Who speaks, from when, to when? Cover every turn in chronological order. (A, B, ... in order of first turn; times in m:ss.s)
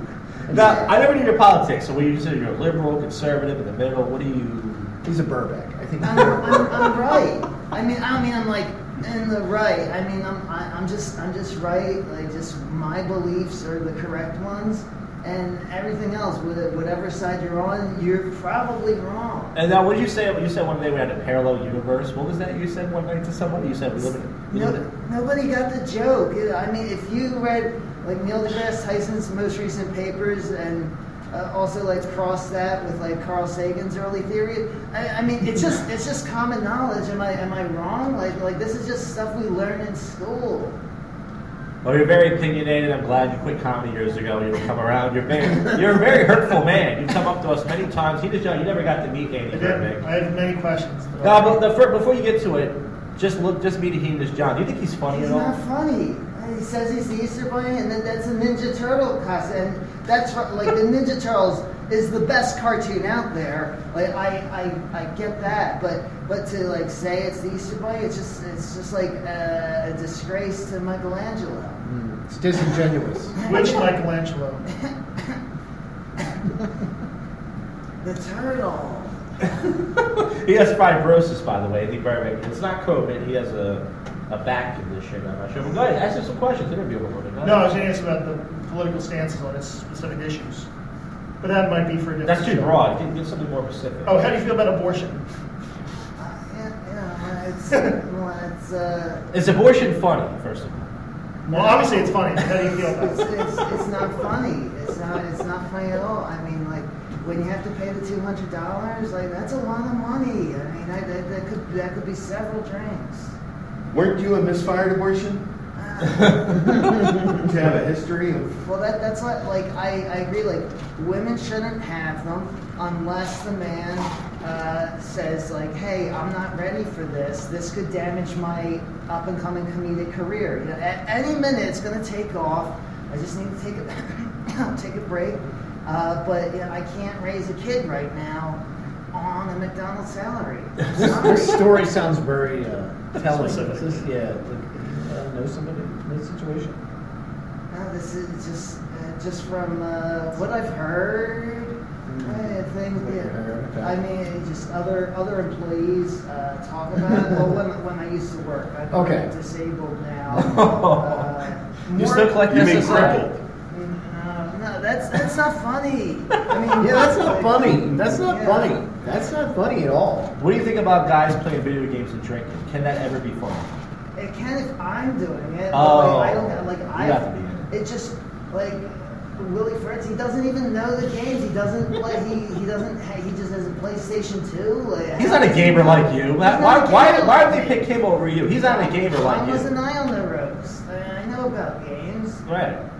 0:00.5-0:00.8 A
0:00.5-0:04.9 B
0:00.5-0:00.9 C
0:05.0-0:07.1 A
0:06.0-0:19.5 C
0:19.5-0:24.8 B
0:24.5-0:40.8 C
0:41.8-0:50.0 B
0:49.5-0:51.6 D
0:51.2-0:55.5 B
0:55.1-1:11.8 C
1:11.8-1:13.3 A
1:13.4-1:14.0 C
1:13.4-1:14.6 D
1:14.7-1:15.4 C
1:18.0-1:19.7 C
1:19.8-1:27.7 B
1:27.4-1:30.7 D
1:31.4-1:32.7 D
1:32.2-1:34.3 B
1:34.0-1:35.2 D
1:36.2-1:39.2 C
1:39.3-1:40.9 B
1:41.4-1:43.3 D
1:41.5-1:53.3 C
1:53.9-1:55.5 E
1:55.7-1:57.1 C
1:56.0-1:56.9 B
1:57.3-1:58.6 E
1:58.6-2:18.6 C
2:19.1-2:21.8 C
2:20.9-2:26.8 A
2:23.2-2:24.1 D
2:27.7-2:48.9 C
2:32.0-2:34.0 A
2:38.9-2:39.3 A
2:40.3-2:41.4 B
2:41.9-2:43.3 B
2:42.4-2:43.4 E
2:46.8-2:50.3 A
2:50.4-2:53.7 B
2:54.2-3:07.8 C
2:55.7-2:57.7 B
3:05.2-3:09.7 B
3:08.6-3:12.4 C
3:12.4-3:12.8 B